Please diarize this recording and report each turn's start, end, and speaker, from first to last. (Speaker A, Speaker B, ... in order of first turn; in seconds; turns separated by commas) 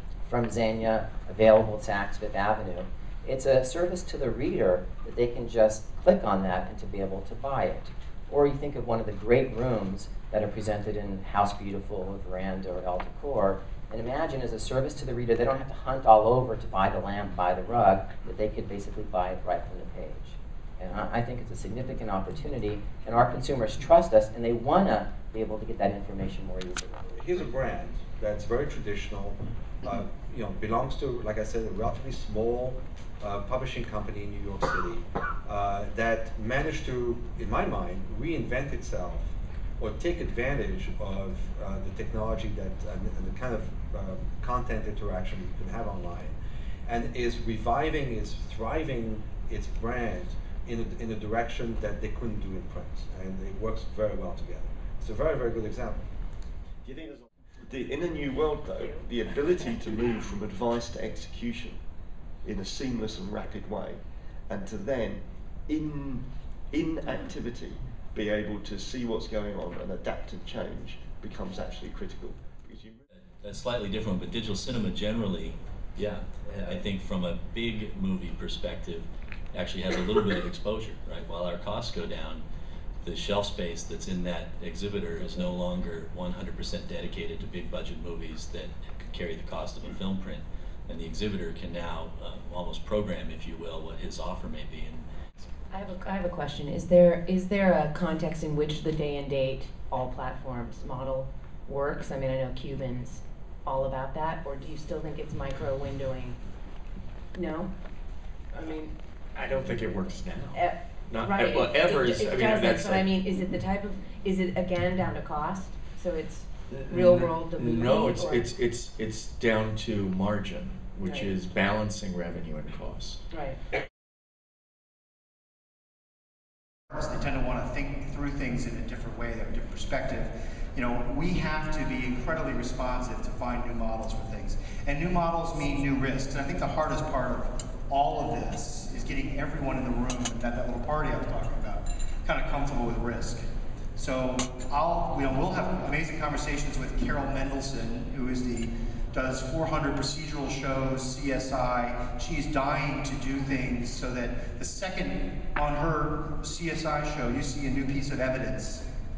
Speaker A: 0.2-27.0, Speaker B: 27.1-56.0, Speaker C: 57.6-61.8, Speaker C: 62.4-73.0, Speaker D: 73.4-82.4, Speaker D: 83.0-95.0, Speaker E: 95.7-106.4, Speaker E: 107.3-107.7, Speaker F: 109.4-110.5, Speaker E: 110.5-118.5, Speaker F: 111.3-113.0, Speaker F: 117.2-123.2, Speaker E: 121.0-121.3, Speaker E: 123.3-123.6, Speaker G: 126.9-143.4, Speaker G: 144.0-158.8